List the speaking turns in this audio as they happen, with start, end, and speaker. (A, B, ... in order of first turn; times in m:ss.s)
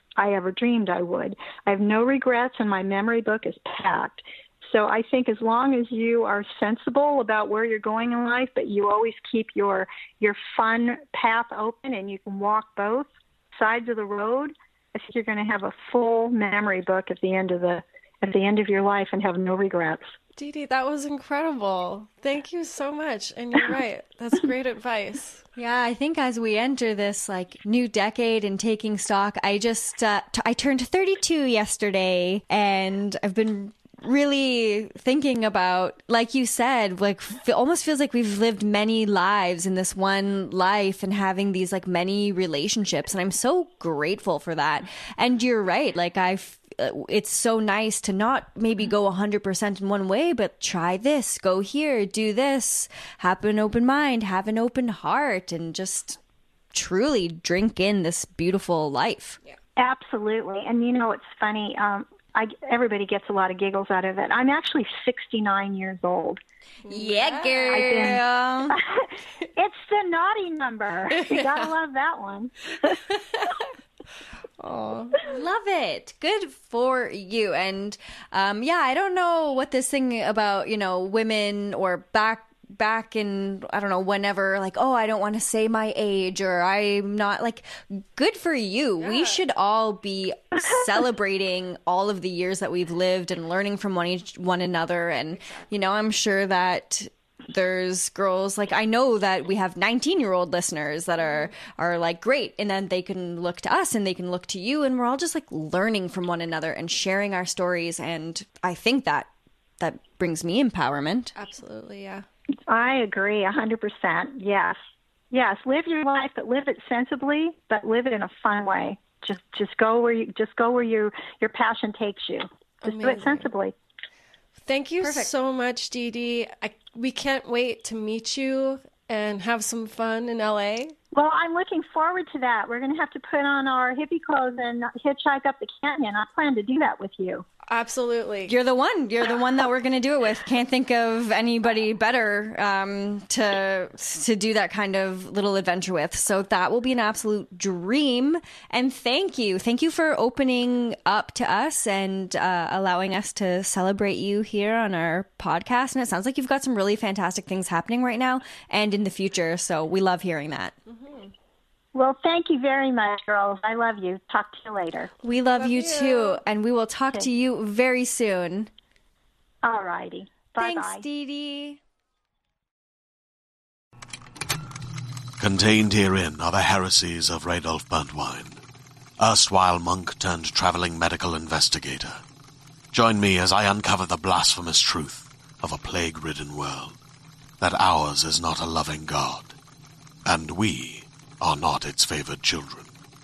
0:00.2-0:20.0 A
0:20.4-0:25.4 B
0:25.6-0:56.2 C
0:56.7-0:59.4 C
0:59.8-1:06.4 A
1:06.8-1:08.1 B
1:06.9-1:08.8 C
1:07.7-1:13.0 A
1:11.1-1:11.7 B
1:13.1-1:13.6 B
1:14.6-1:15.2 B
1:15.2-1:51.3 C
1:29.0-1:29.4 B
1:41.2-1:41.5 B
1:51.3-1:52.2 B
1:52.7-1:54.8 A
1:55.3-2:03.7 A
2:02.8-2:03.5 B
2:04.6-2:10.9 B
2:11.1-2:17.4 A
2:17.7-2:18.5 B
2:18.5-2:40.7 C
2:40.9-2:41.3 B
2:41.9-2:45.1 A
2:45.2-2:48.7 C
2:45.6-2:46.4 B
2:49.6-2:51.0 A
2:50.6-2:51.8 C
2:55.4-2:58.6 D
2:59.2-3:02.2 D
3:02.9-3:07.0 D
3:07.6-3:09.5 D
3:10.2-3:12.9 D